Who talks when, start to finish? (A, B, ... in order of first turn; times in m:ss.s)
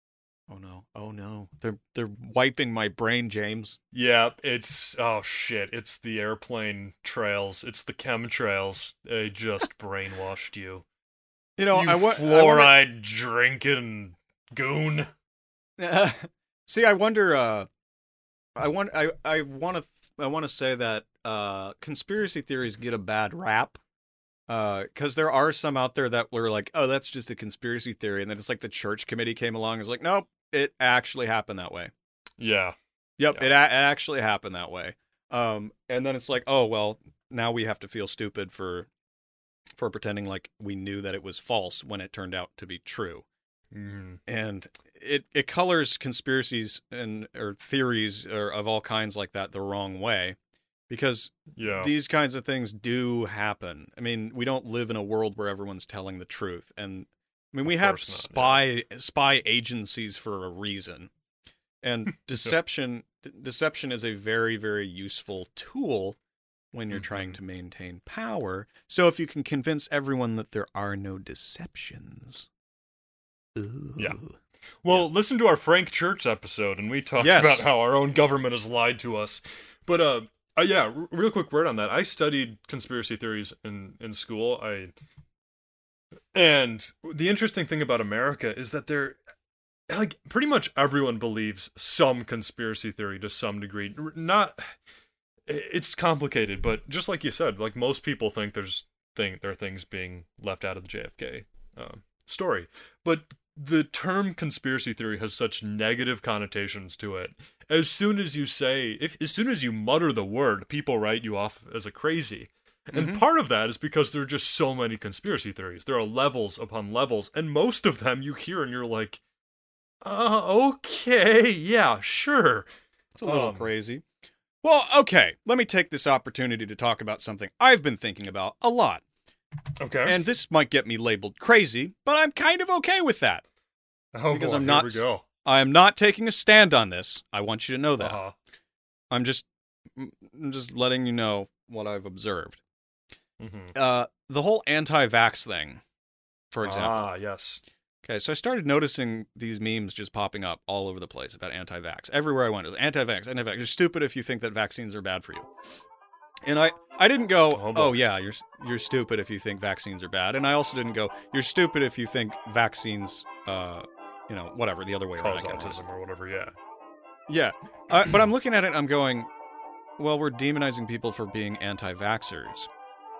0:00.5-0:03.8 A
0:03.9-0:10.8 B
0:11.6-0:12.8 A
0:11.7-0:15.1 B
0:15.8-0:17.7 A
0:18.6-0:23.8 A
0:24.5-0:31.9 A
0:32.4-0:32.8 B
0:33.2-0:38.9 A
0:39.8-0:43.2 A
0:43.7-0:44.2 B
0:44.3-0:50.4 A
0:50.9-1:01.1 A
0:51.5-0:51.9 B
0:57.6-0:58.7 B
1:01.8-1:06.2 A
1:06.7-1:12.5 A
1:06.9-1:07.4 B
1:13.6-1:14.3 A
1:14.8-1:24.9 B
1:17.2-1:17.7 A
1:26.3-1:29.2 B
1:29.9-1:34.7 B
1:35.5-1:59.2 B
1:52.9-1:53.2 A
2:00.0-2:02.7 B
2:03.2-2:04.0 A
2:03.2-2:03.7 B
2:04.6-2:09.0 A
2:09.8-2:10.2 B
2:10.0-2:13.4 A
2:14.1-2:15.2 B
2:14.3-2:18.2 A
2:18.0-2:18.4 B
2:19.1-2:22.6 A
2:23.4-2:23.7 B
2:23.7-2:25.8 A
2:26.5-2:27.1 A
2:26.6-2:27.6 B
2:28.0-2:35.5 A
2:36.4-2:45.8 A
2:37.5-2:38.0 B
2:45.2-2:46.5 B
2:47.3-2:49.3 A
2:50.0-2:52.7 A